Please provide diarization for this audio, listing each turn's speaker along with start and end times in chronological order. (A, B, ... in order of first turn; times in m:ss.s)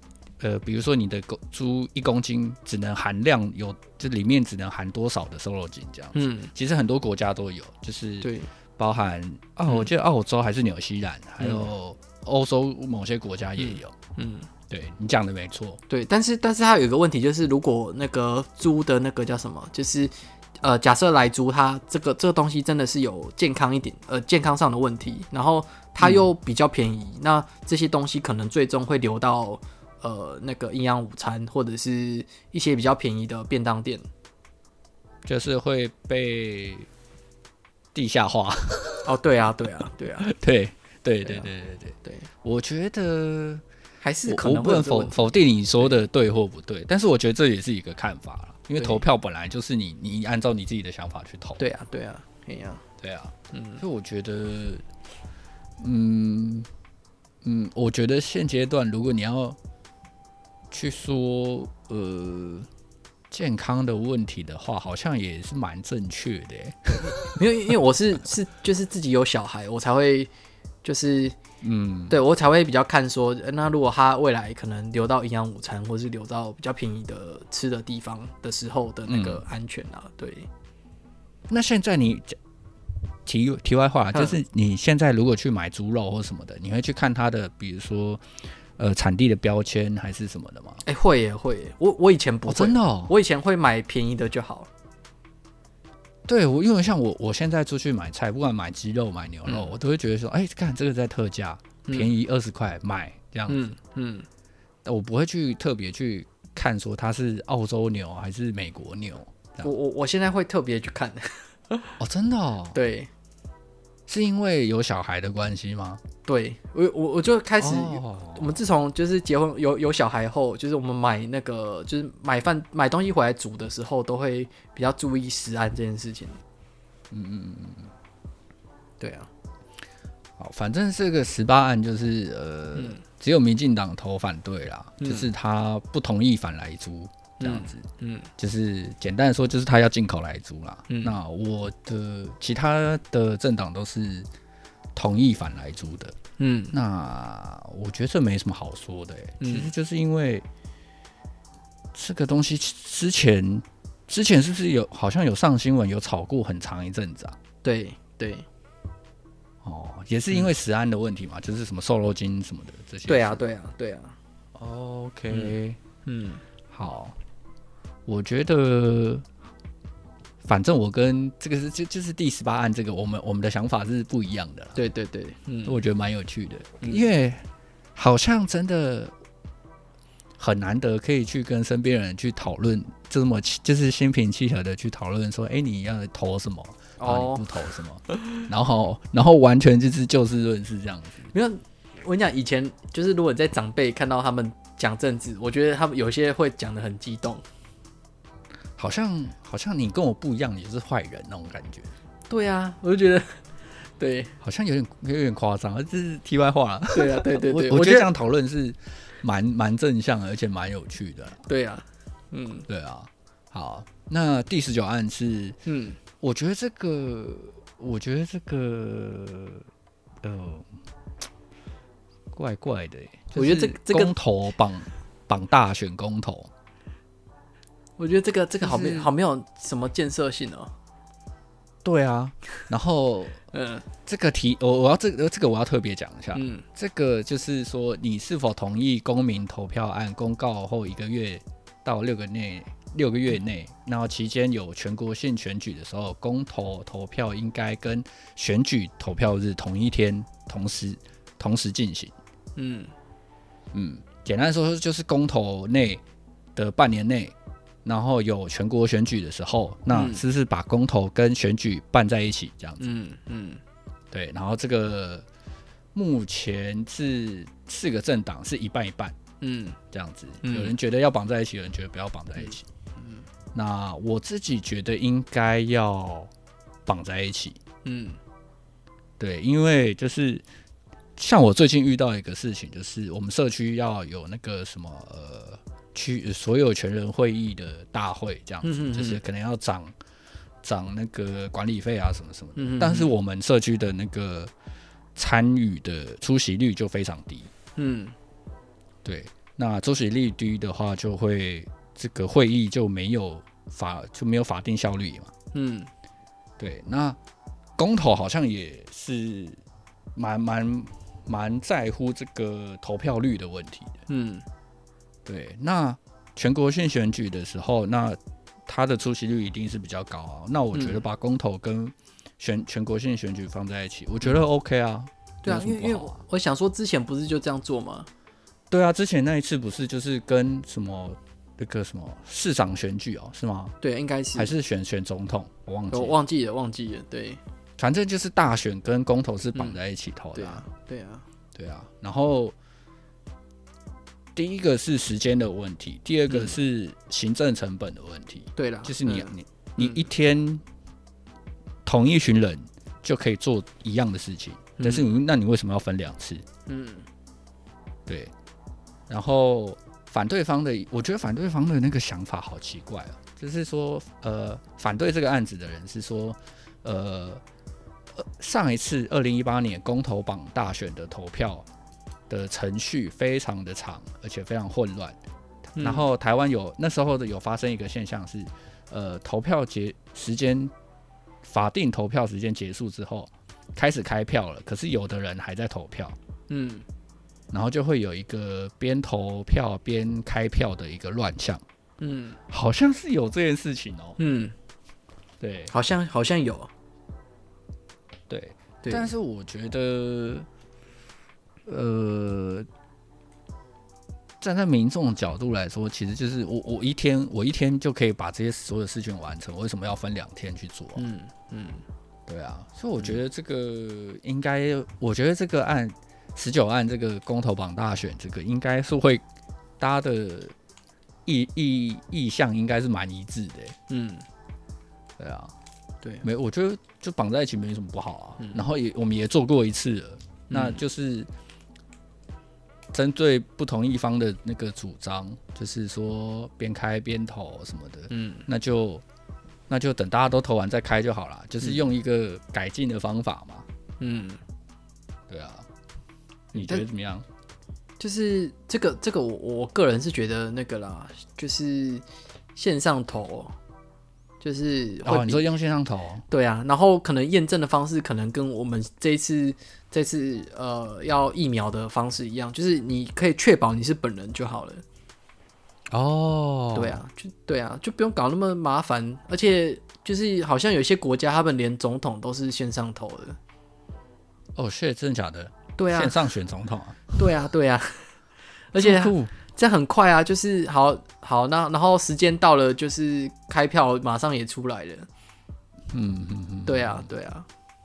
0:00.4-0:13.9 A
0:06.1-0:06.5 B
0:08.2-0:08.5 B
0:11.4-0:11.7 B
0:13.6-0:14.5 B
0:14.7-0:15.8 A
0:15.9-0:34.0 B
0:26.0-0:26.2 A
0:35.2-0:36.9 A
0:37.9-0:39.1 A
0:39.0-0:40.3 B
0:40.2-0:43.6 A
0:41.2-0:41.5 B
0:44.0-0:45.9 B
0:44.2-0:51.6 A
0:48.8-0:49.0 B
0:51.6-0:52.8 B
0:53.0-0:54.8 A
0:53.5-0:53.8 B
0:55.8-0:56.7 A
0:57.4-0:59.6 A
1:00.7-1:02.7 A
1:03.3-1:07.4 A
1:07.0-1:10.3 B
1:10.8-1:11.4 B
1:11.6-1:12.2 A
1:12.1-1:20.5 B
1:19.1-1:19.4 A
1:21.5-1:22.4 A
1:23.2-1:30.8 A
1:24.1-1:24.4 B
1:30.8-1:34.7 B
1:32.5-1:33.1 A
1:36.2-1:43.6 A
1:39.4-1:39.7 B
1:41.8-1:42.1 B
1:43.5-1:44.2 B
1:44.8-1:49.7 A
1:49.6-1:51.9 B
1:52.0-1:52.8 A
1:52.7-1:53.1 B
1:54.1-1:56.0 A
1:56.2-2:06.4 B
1:57.6-1:58.5 A
2:07.1-2:07.9 A
2:09.0-2:09.3 B
2:10.4-2:17.8 A
2:12.7-2:13.0 B
2:15.0-2:15.3 B
2:17.4-2:18.3 B
2:18.4-2:24.3 A
2:20.9-2:21.2 B
2:24.9-2:26.1 A
2:26.4-2:26.7 B
2:26.7-2:30.4 A
2:29.4-2:29.7 B
2:31.9-2:37.4 A
2:37.6-2:38.4 B
2:39.6-2:43.4 A
2:43.1-2:44.2 B
2:44.5-2:45.8 A
2:45.3-2:46.4 B
2:46.7-2:47.2 A
2:48.0-2:49.2 A
2:50.4-2:54.8 A
2:54.7-2:55.8 B
2:55.6-2:59.1 A
3:00.4-3:11.3 A
3:07.0-3:07.7 B
3:11.3-3:17.4 B
3:18.8-3:21.9 A
3:22.3-3:24.3 B
3:24.4-3:31.4 A
3:26.9-3:28.1 B
3:31.4-3:32.6 B
3:32.7-3:35.6 A
3:35.6-3:36.0 B
3:36.2-3:39.6 A
3:40.2-3:40.7 A
3:42.3-3:46.5 A
3:43.3-3:44.1 B
3:48.0-3:50.7 B
3:48.6-3:49.1 A
3:51.8-3:53.4 A
3:53.5-3:53.8 B
3:54.0-4:12.1 A
3:56.3-3:56.6 B
4:12.6-4:12.9 B
4:13.7-4:16.0 A
4:16.5-4:22.9 A
4:19.9-4:20.2 B
4:22.8-4:23.6 B
4:24.1-4:25.2 A
4:25.9-4:29.2 A
4:29.4-4:29.8 B
4:29.9-4:32.7 A
4:30.4-4:30.7 B
4:32.4-4:33.2 B
4:33.5-4:36.3 A
4:36.8-4:37.6 A
4:37.8-4:38.2 B
4:39.2-4:40.4 A
4:41.2-4:49.9 A
4:48.6-4:49.2 B
4:50.6-4:54.5 A
4:52.6-4:53.1 B
4:55.2-4:57.5 A
4:57.8-4:58.1 B
4:59.0-5:05.3 A
5:05.5-5:05.9 B
5:06.6-5:07.2 A
5:07.8-5:09.6 A
5:10.1-5:14.0 A
5:14.1-5:14.4 B
5:15.2-5:26.2 A
5:20.7-5:21.0 B
5:25.4-5:28.1 B
5:28.7-5:33.7 A
5:33.8-5:34.5 B
5:34.3-5:36.2 A
5:35.9-5:37.4 B
5:37.8-5:40.6 A
5:40.3-5:41.2 B
5:41.5-5:42.5 A
5:44.3-5:50.6 A
5:46.3-5:46.6 B
5:48.6-5:50.0 B
5:51.8-5:56.4 A
5:54.8-5:55.1 B
5:56.7-5:57.1 B
5:58.0-5:58.3 A
5:59.1-6:07.4 A
6:08.1-6:11.7 A
6:12.3-6:15.2 A
6:15.8-6:16.0 B
6:15.8-6:20.7 A
6:21.4-6:26.2 A
6:26.5-6:26.8 B
6:27.5-6:31.6 A
6:32.0-6:32.4 B
6:32.5-6:34.2 A
6:34.2-6:34.5 B
6:35.4-6:35.7 A
6:35.7-6:36.7 B
6:38.3-6:40.5 A
6:38.8-6:39.1 B
6:41.6-6:42.7 A
6:44.4-6:51.0 A
6:51.0-6:51.8 B
6:52.3-6:59.2 A
6:59.8-7:00.5 A
7:01.2-7:03.8 A
7:03.9-7:04.2 B
7:05.2-7:05.5 A
7:06.2-7:11.3 A
7:10.5-7:10.8 B
7:12.9-7:19.0 A
7:18.1-7:18.4 B
7:19.7-7:23.6 A
7:24.0-7:24.4 B
7:25.3-7:25.7 A
7:26.5-7:27.2 A
7:26.6-7:26.8 B
7:28.0-7:32.0 B
7:32.5-7:33.5 B
7:34.4-7:35.4 B
7:35.0-7:36.2 A
7:36.3-7:44.8 B
7:45.9-7:47.0 A
7:46.7-7:53.4 B
7:54.5-7:57.2 A
7:55.8-7:56.3 B
7:57.1-7:58.1 B
7:58.7-8:05.1 B
7:58.8-7:59.3 A
8:05.9-8:07.1 A
8:06.6-8:07.5 B